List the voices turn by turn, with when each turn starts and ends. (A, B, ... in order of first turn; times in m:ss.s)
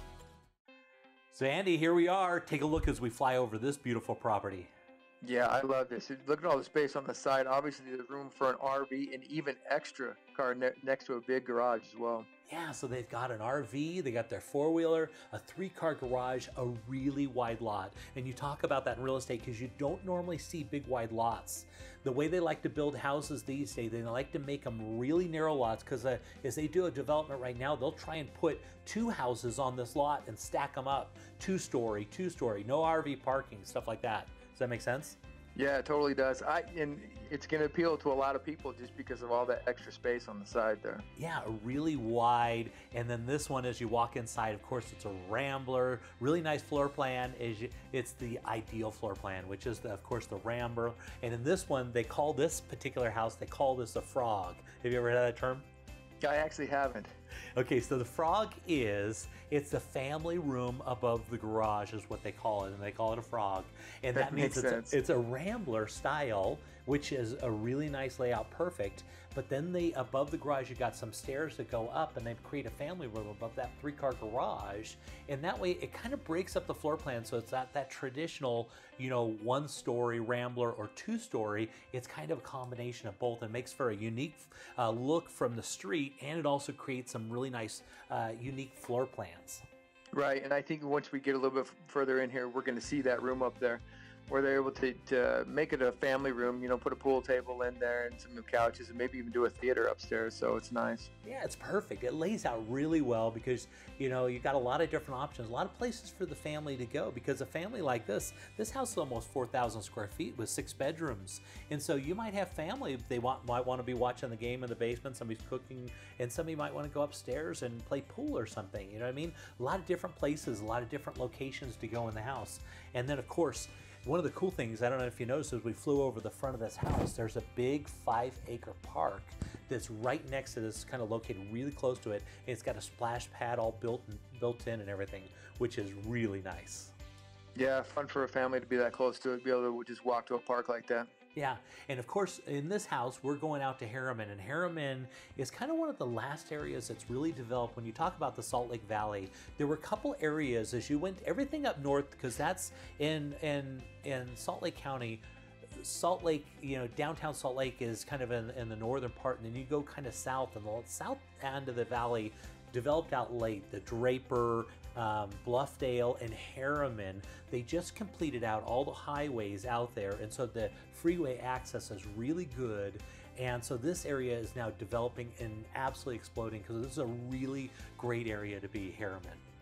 0:01.3-0:04.7 A
0:05.2-0:12.3 B
0:12.5-0:35.2 A
0:35.5-0:41.0 B
0:41.2-0:55.7 A
0:56.2-0:57.1 B
0:57.6-1:29.6 A
1:04.1-1:05.0 B
1:30.1-1:41.1 B
1:41.2-2:16.9 A
2:17.5-2:21.1 B
2:21.3-2:35.2 A
2:35.8-2:59.4 A